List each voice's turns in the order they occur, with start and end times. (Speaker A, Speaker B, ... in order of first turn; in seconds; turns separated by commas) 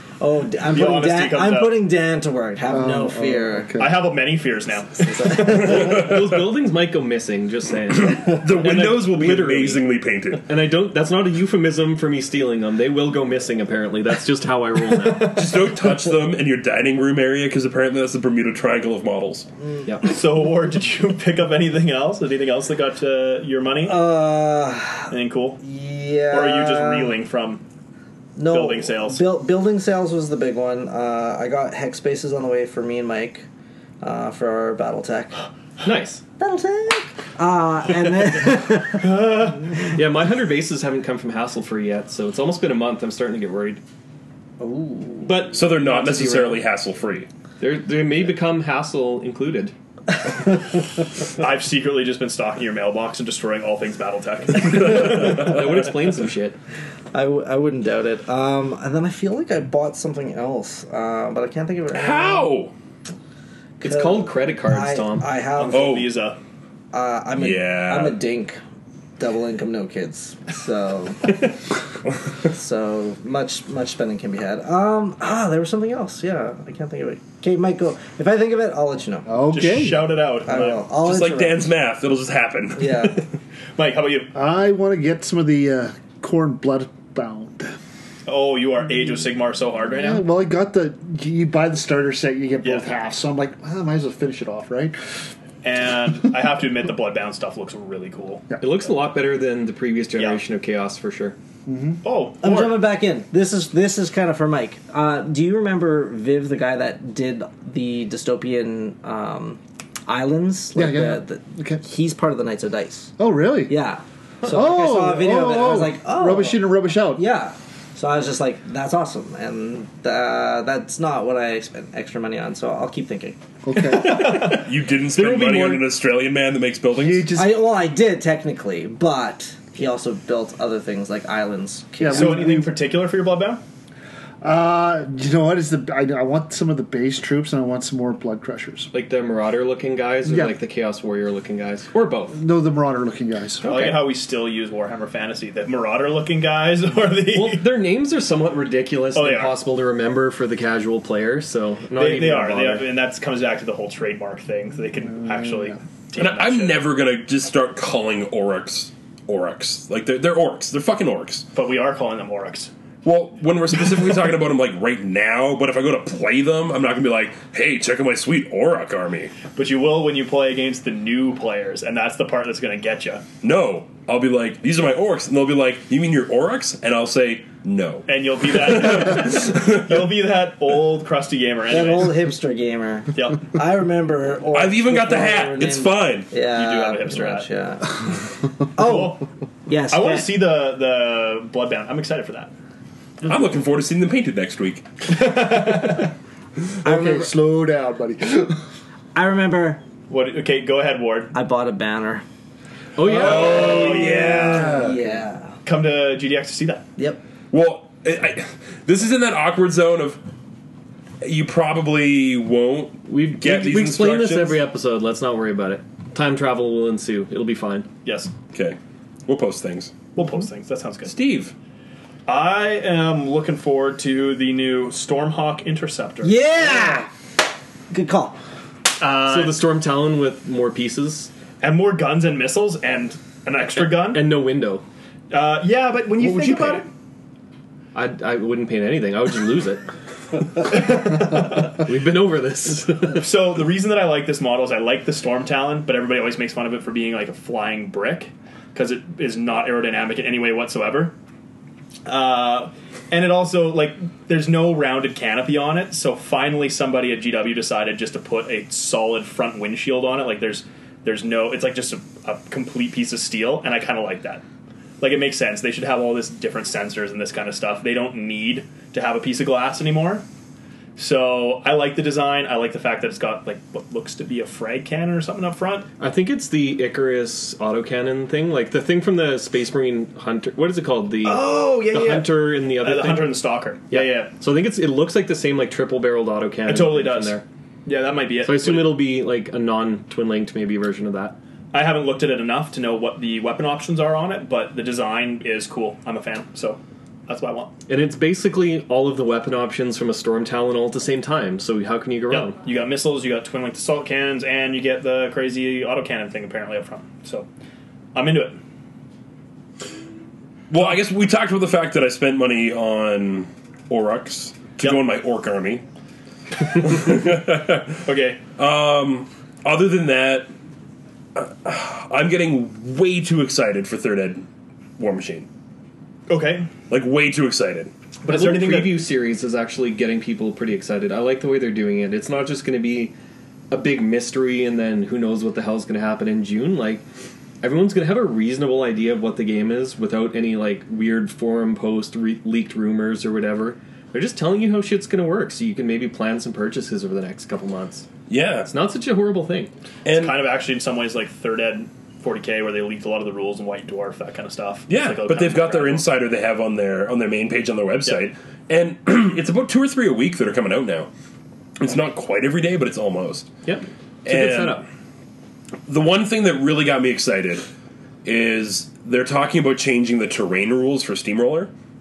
Speaker A: 0.2-3.8, Speaker B: 0.7-1.8, Speaker C: 2.7-3.9, Speaker B: 3.8-5.6, Speaker A: 5.0-6.1, Speaker D: 5.5-9.9, Speaker E: 5.8-6.3, Speaker E: 7.9-10.4, Speaker D: 10.4-15.6, Speaker E: 15.2-19.5, Speaker B: 20.0-24.1, Speaker A: 23.8-27.2, Speaker B: 25.1-25.6, Speaker B: 26.3-27.6, Speaker A: 28.4-33.5, Speaker B: 28.4-29.3, Speaker A: 34.0-35.4, Speaker D: 35.8-36.2, Speaker A: 36.4-39.5, Speaker D: 39.2-43.8, Speaker A: 44.6-45.5, Speaker D: 45.2-46.6, Speaker E: 45.5-47.3, Speaker D: 47.6-49.7, Speaker B: 51.4-55.4, Speaker D: 54.8-56.6, Speaker A: 57.1-62.5, Speaker E: 61.9-62.7, Speaker D: 63.8-65.3, Speaker A: 63.8-66.0, Speaker B: 65.5-66.4, Speaker E: 65.7-66.1, Speaker A: 66.9-68.6, Speaker E: 67.3-68.2, Speaker A: 69.2-71.4, Speaker A: 72.4-79.4, Speaker C: 79.3-80.6, Speaker B: 79.5-80.8, Speaker A: 80.5-81.7, Speaker E: 80.9-83.2, Speaker A: 82.8-83.2, Speaker B: 83.8-84.3, Speaker C: 84.3-87.8, Speaker B: 88.2-90.3, Speaker C: 89.9-95.0, Speaker B: 92.6-92.9, Speaker B: 95.6-98.5, Speaker D: 98.6-101.3, Speaker C: 101.7-102.0, Speaker B: 102.0-102.9, Speaker A: 102.4-113.1, Speaker C: 110.7-111.8, Speaker C: 113.2-113.7, Speaker A: 113.7-123.4, Speaker C: 114.4-117.2, Speaker C: 123.6-124.4, Speaker B: 123.8-125.8, Speaker E: 124.2-127.4, Speaker C: 126.9-127.8, Speaker A: 127.3-132.6, Speaker C: 132.0-132.7, Speaker B: 132.1-133.6, Speaker C: 134.4-138.9, Speaker D: 138.9-142.4, Speaker C: 140.2-140.6, Speaker C: 142.3-143.7, Speaker D: 143.6-144.1, Speaker B: 143.6-147.7, Speaker D: 147.3-152.8, Speaker B: 149.1-149.5, Speaker B: 151.9-156.8, Speaker E: 156.2-161.5, Speaker B: 161.5-162.7, Speaker E: 163.0-169.4, Speaker B: 169.5-173.2, Speaker E: 173.4-180.1, Speaker B: 178.1-182.2, Speaker A: 181.7-188.1, Speaker B: 183.1-183.5, Speaker E: 184.5-186.3, Speaker B: 186.5-187.5, Speaker A: 188.8-190.3, Speaker B: 188.8-189.2, Speaker B: 189.9-192.5, Speaker E: 193.2-194.9, Speaker B: 195.1-196.1, Speaker C: 196.8-198.6, Speaker A: 196.8-197.3, Speaker A: 199.1-199.8, Speaker B: 200.1-201.3, Speaker A: 201.3-202.2, Speaker D: 202.9-203.7, Speaker B: 203.1-204.7, Speaker E: 203.1-204.8, Speaker A: 203.2-205.5, Speaker C: 204.4-205.0, Speaker B: 205.6-206.8, Speaker E: 207.5-210.2, Speaker E: 211.2-214.6, Speaker D: 213.1-217.9, Speaker B: 218.0-218.3, Speaker E: 218.5-219.9, Speaker B: 220.1-221.2, Speaker E: 221.0-221.5, Speaker B: 222.3-226.4, Speaker A: 226.2-227.1, Speaker A: 227.9-228.4, Speaker B: 229.0-229.6, Speaker D: 229.2-231.3, Speaker B: 231.6-234.3, Speaker D: 233.8-234.8, Speaker B: 235.3-236.9, Speaker E: 236.3-236.8, Speaker D: 237.9-239.8, Speaker D: 240.6-243.2, Speaker B: 243.2-251.1, Speaker B: 252.1-264.4, Speaker B: 265.0-270.2, Speaker B: 271.0-275.9, Speaker D: 276.0-283.4, Speaker B: 281.2-284.3, Speaker D: 283.9-287.4, Speaker B: 286.6-289.1, Speaker D: 288.4-291.3, Speaker B: 291.7-297.7, Speaker D: 297.9-302.6, Speaker B: 302.3-307.5, Speaker B: 308.1-308.6, Speaker E: 310.7-315.8, Speaker E: 316.6-320.5, Speaker B: 318.0-318.4, Speaker E: 321.3-324.4, Speaker E: 325.0-325.5, Speaker B: 326.3-326.7, Speaker E: 326.9-327.9, Speaker B: 328.2-329.1, Speaker D: 328.2-333.1, Speaker D: 333.7-337.0, Speaker D: 337.6-348.1, Speaker E: 348.3-348.7, Speaker D: 348.6-349.7, Speaker E: 350.0-350.4, Speaker B: 350.1-356.1, Speaker E: 354.9-361.1, Speaker B: 358.0-358.3, Speaker E: 361.8-363.5, Speaker D: 363.6-364.9, Speaker E: 364.2-364.8, Speaker E: 365.9-367.7, Speaker E: 368.2-371.7